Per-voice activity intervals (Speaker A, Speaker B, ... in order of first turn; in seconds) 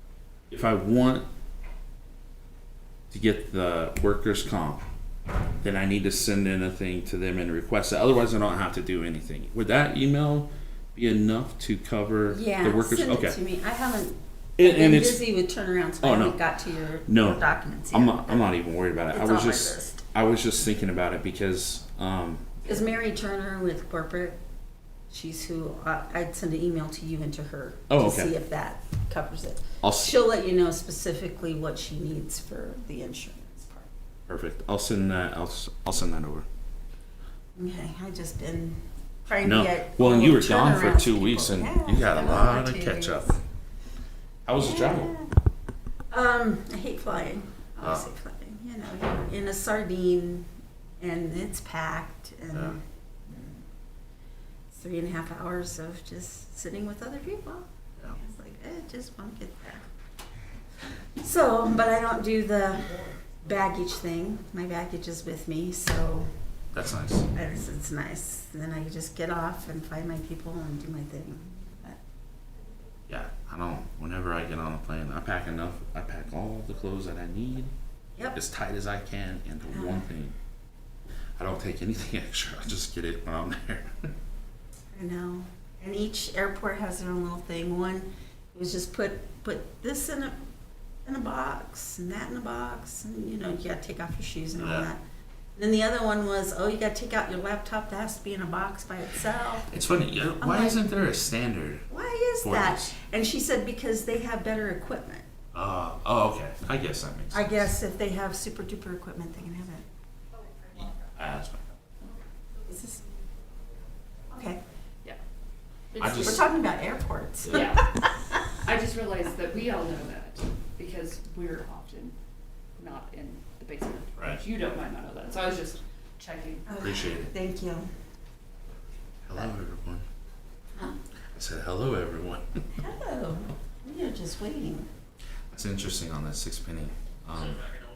Speaker A: 0.5-1.2, 3.1-4.8, 5.6-13.4, 14.6-15.2, 16.0-16.4, 17.1-22.6, 27.9-28.3, 29.8-30.1, 34.3-36.5, 39.4-43.3, 44.5-45.2, 47.8-48.1, 52.5-52.8, 66.7-67.3, 73.1-77.7, 78.3-80.3, 81.4-84.0, 94.6-94.9, 99.7-101.8, 102.4-102.9, 105.5-107.7, 110.7-111.6, 116.0-116.4, 117.4-117.8, 126.8-127.3, 129.3-130.0, 131.3-132.4, 135.5-137.6
Speaker B: 12.3-18.4, 19.1-20.0, 22.6-24.4, 25.1-33.9, 37.5-43.4, 44.6-45.3, 46.1-50.5, 51.0-53.6, 54.7-59.8, 61.2-66.3, 67.3-72.0, 79.7-80.0, 84.9-90.3, 91.0-95.0, 95.5-100.8, 101.9-105.2, 107.3-109.8, 112.7-113.0, 114.3-114.6, 116.2-118.3, 126.7-127.9, 132.8-134.9
Speaker C: 115.9-116.4, 117.5-122.1, 122.8-126.7